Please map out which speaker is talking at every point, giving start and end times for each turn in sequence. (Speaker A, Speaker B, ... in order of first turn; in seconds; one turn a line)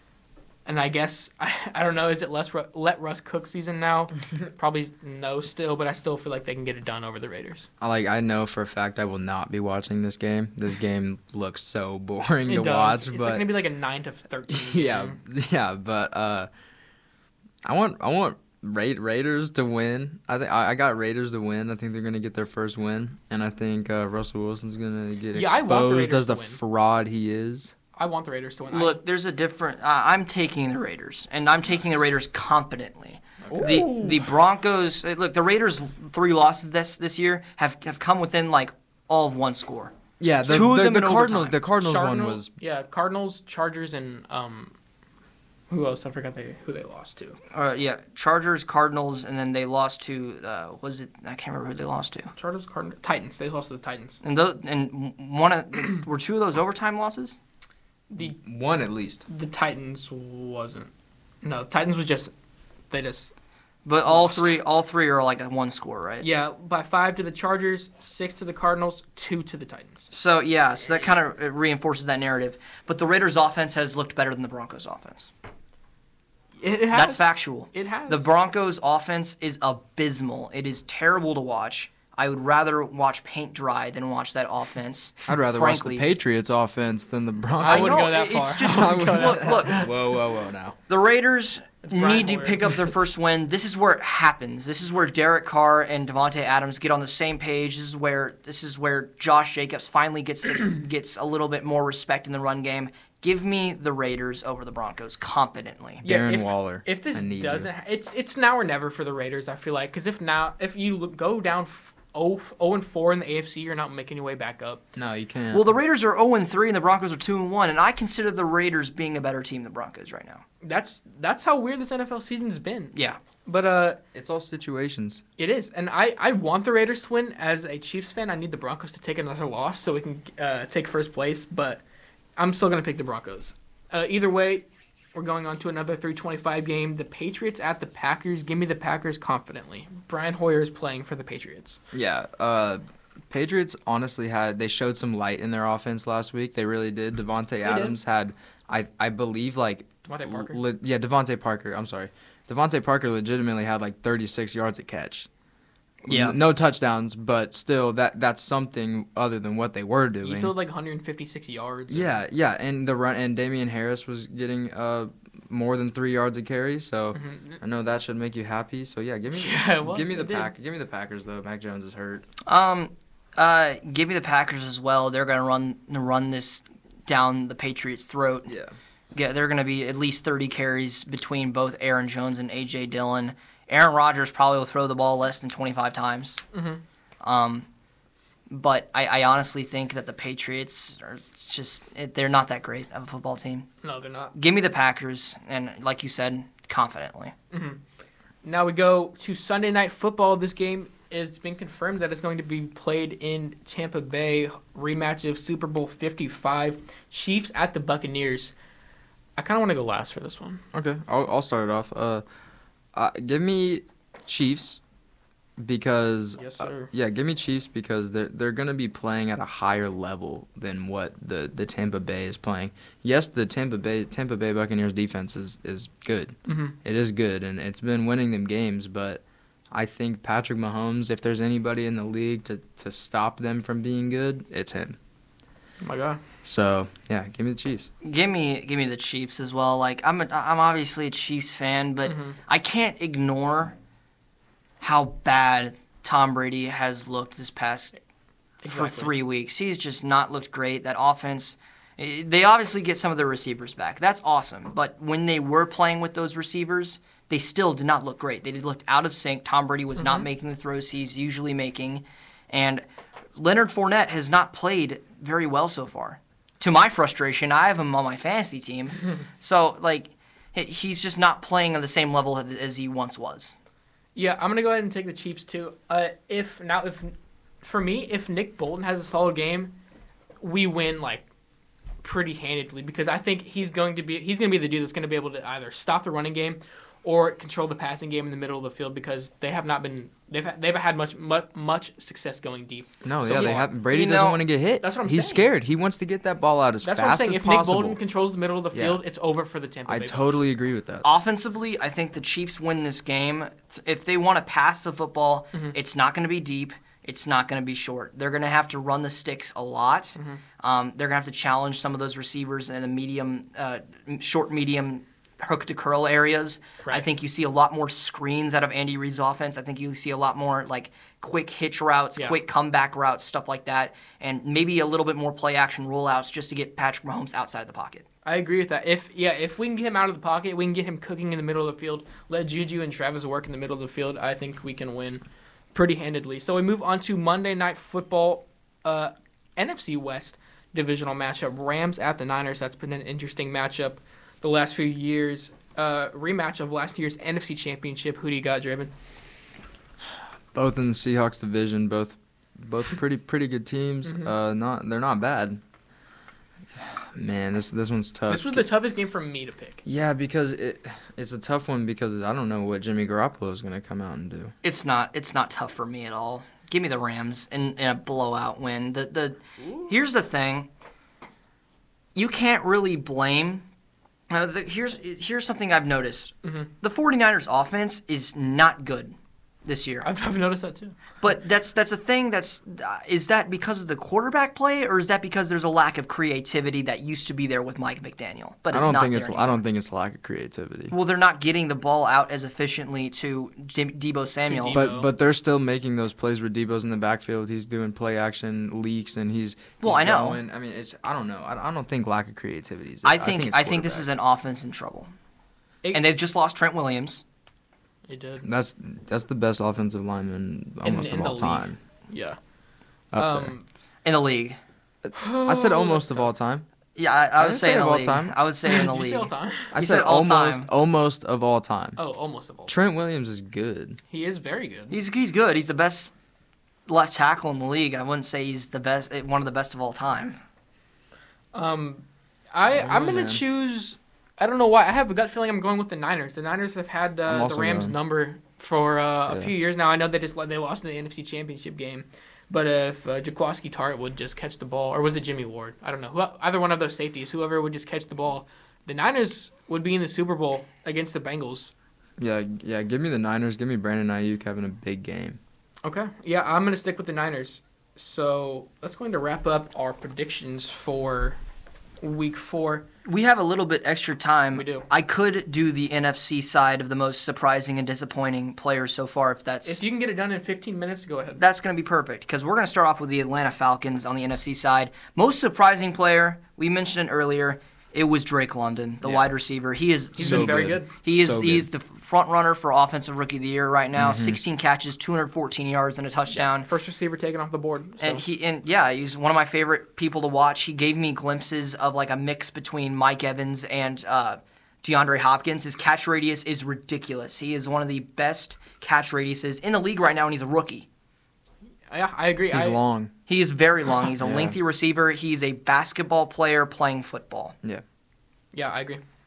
Speaker A: 0.7-7.7
Speaker B: 7.8-13.5
Speaker A: 12.4-15.2
Speaker B: 14.5-16.5
Speaker B: 17.6-27.7
Speaker A: 25.3-26.6
Speaker A: 27.9-29.0
Speaker C: 28.7-39.9
Speaker A: 33.5-34.3
Speaker B: 40.2-42.5
Speaker C: 40.4-41.6
Speaker A: 41.8-44.7
Speaker A: 45.7-47.4
Speaker C: 47.5-52.3
Speaker A: 52.3-54.2
Speaker C: 54.2-57.4
Speaker A: 58.1-58.4
Speaker B: 58.2-59.2
Speaker A: 59.3-60.9
Speaker A: 61.4-62.3
Speaker A: 62.9-63.3
Speaker C: 63.8-66.3
Speaker A: 64.1-64.5
Speaker A: 66.2-70.0
Speaker C: 70.1-75.3
Speaker A: 76.6-78.3
Speaker C: 76.9-86.0
Speaker B: 85.3-90.8
Speaker A: 87.6-89.9
Speaker C: 87.7-89.8
Speaker C: 90.9-106.0
Speaker A: 91.8-92.7
Speaker B: 106.0-107.7
Speaker A: 106.0-114.8
Speaker B: 115.0-115.7
Speaker C: 115.5-120.4
Speaker A: 120.6-122.9
Speaker A: 123.4-124.0
Speaker B: 124.1-125.2
Speaker A: 125.4-131.8
Speaker A: 132.4-141.8
Speaker B: 141.9-155.3
Speaker A: 147.6-147.9
Speaker A: 150.0-150.6
Speaker C: 156.0-156.3
Speaker B: 156.1-160.5
Speaker A: 160.2-162.2
Speaker B: 161.9-172.2
Speaker A: 167.1-167.6
Speaker A: 169.3-170.5
Speaker C: 172.4-178.5
Speaker B: 178.5-178.7
Speaker C: 179.1-186.4
Speaker A: 186.5-186.8
Speaker C: 187.2-187.7
Speaker C: 188.5-193.7
Speaker A: 193.8-194.3
Speaker C: 194.3-197.3
Speaker A: 197.5-197.8
Speaker A: 198.4-208.5
Speaker A: 209.4-210.6
Speaker B: 210.7-212.2
Speaker B: 212.9-214.8
Speaker B: 215.6-235.0
Speaker A: 216.4-216.9
Speaker A: 226.5-226.8
Speaker A: 235.8-236.2
Speaker B: 236.4-237.9
Speaker C: 238.0-243.7
Speaker A: 242.0-242.4
Speaker C: 244.8-247.9
Speaker A: 248.6-249.1
Speaker C: 248.6-262.8
Speaker A: 260.0-260.2
Speaker C: 263.4-273.6
Speaker A: 274.1-279.8
Speaker A: 280.4-281.2
Speaker A: 282.0-293.7
Speaker B: 293.0-298.0
Speaker C: 293.9-294.4
Speaker A: 294.8-295.4
Speaker A: 296.8-300.4
Speaker B: 298.7-299.0
Speaker B: 299.9-301.1
Speaker C: 301.0-328.1
Speaker A: 310.2-310.4
Speaker A: 328.2-335.2
Speaker A: 335.7-348.9
Speaker B: 350.5-355.6
Speaker A: 354.0-354.3
Speaker B: 356.8-358.6
Speaker A: 358.3-359.8
Speaker B: 359.8-364.5
Speaker C: 364.6-370.7
Speaker C: 372.1-373.6
Speaker C: 374.3-380.1
Speaker A: 376.4-376.7
Speaker A: 380.0-381.0
Speaker C: 381.2-389.6
Speaker B: 388.7-390.9
Speaker C: 390.9-394.8
Speaker A: 394.5-395.1
Speaker B: 394.7-404.1
Speaker C: 399.8-400.4
Speaker C: 403.0-405.1
Speaker C: 405.9-407.2
Speaker A: 408.1-408.4
Speaker B: 408.4-411.8
Speaker A: 410.8-412.4
Speaker B: 413.1-413.5
Speaker A: 413.1-413.6
Speaker C: 414.0-414.6
Speaker B: 415.1-416.6
Speaker A: 415.1-416.3
Speaker C: 416.9-420.7
Speaker B: 417.4-418.3
Speaker A: 418.6-419.7
Speaker B: 419.7-422.0
Speaker A: 422.0-422.8
Speaker B: 422.7-424.0
Speaker A: 424.1-424.9
Speaker C: 424.9-426.1
Speaker C: 426.9-430.4
Speaker A: 431.5-451.7
Speaker B: 432.7-433.4
Speaker B: 437.3-437.9
Speaker B: 452.2-455.4
Speaker A: 455.8-461.4
Speaker A: 462.0-462.9
Speaker C: 463.0-469.8
Speaker A: 464.5-464.8
Speaker A: 469.6-471.4
Speaker C: 471.4-486.7
Speaker A: 480.1-480.9
Speaker B: 480.2-481.7
Speaker B: 483.9-484.4
Speaker A: 486.3-488.2
Speaker C: 488.0-500.9
Speaker A: 501.9-502.8
Speaker B: 502.5-503.1
Speaker C: 503.3-507.5
Speaker B: 504.2-504.6
Speaker A: 508.5-509.0